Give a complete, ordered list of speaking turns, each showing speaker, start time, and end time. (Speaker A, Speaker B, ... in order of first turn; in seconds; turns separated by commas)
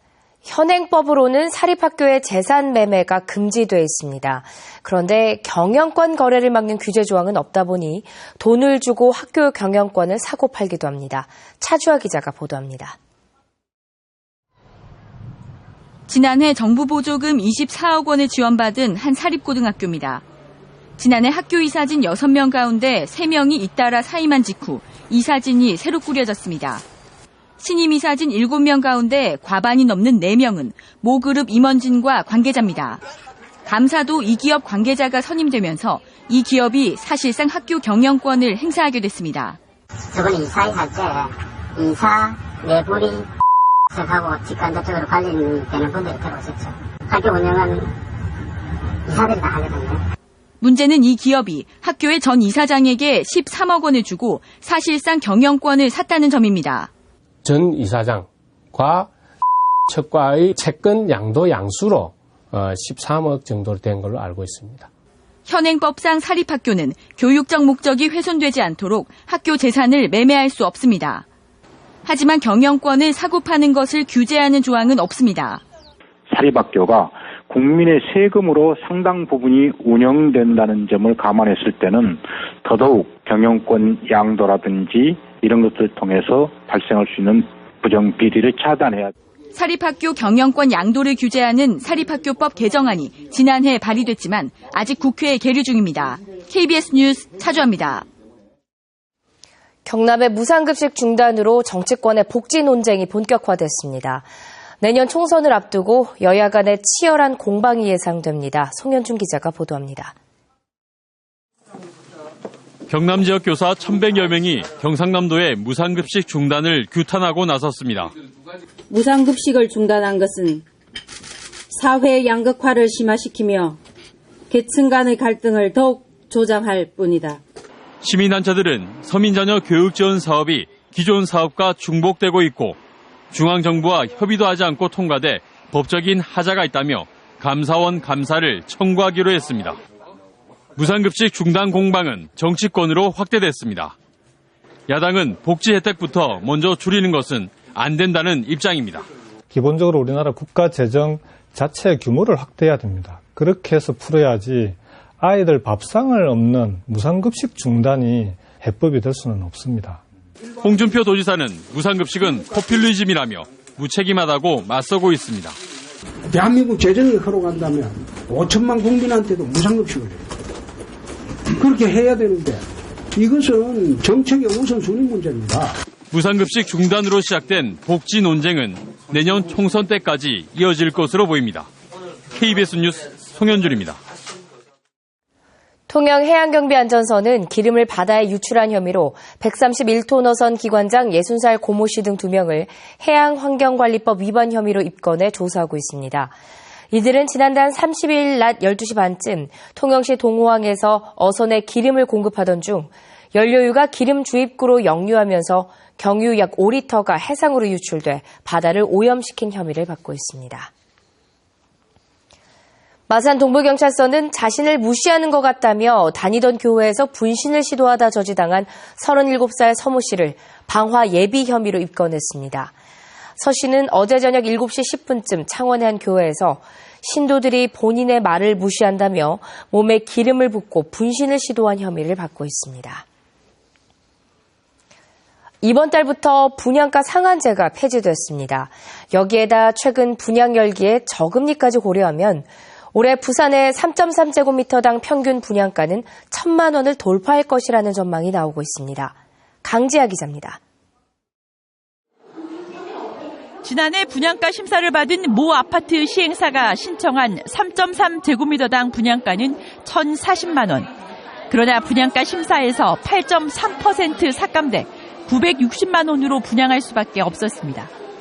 Speaker A: 0.5-13.0, Speaker B: 16.1-20.2, Speaker B: 21.0-26.8, Speaker B: 27.6-33.0, Speaker B: 33.7-39.6, Speaker C: 40.1-43.3, Speaker C: 43.9-48.0, Speaker C: 49.0-50.0, Speaker B: 50.6-56.9, Speaker D: 57.5-59.1, Speaker D: 59.9-64.9, Speaker B: 65.5-71.2, Speaker B: 72.0-75.6, Speaker E: 76.3-89.1, Speaker B: 89.5-98.0, Speaker A: 99.9-104.3, Speaker A: 104.8-110.1, Speaker F: 112.9-118.1, Speaker G: 118.9-120.7, Speaker G: 121.7-123.8, Speaker G: 124.5-127.4, Speaker F: 128.0-132.8, Speaker F: 133.3-139.8, Speaker F: 140.8-143.9, Speaker F: 144.9-149.0, Speaker H: 149.5-160.0, Speaker F: 160.6-165.6, Speaker I: 166.3-170.2, Speaker I: 171.5-175.8, Speaker F: 176.1-181.7, Speaker F: 182.3-184.0, Speaker A: 185.9-196.3, Speaker A: 196.9-210.7, Speaker A: 213.1-222.7, Speaker A: 223.4-233.0, Speaker A: 235.6-250.6, Speaker J: 253.6-260.9, Speaker J: 261.5-267.9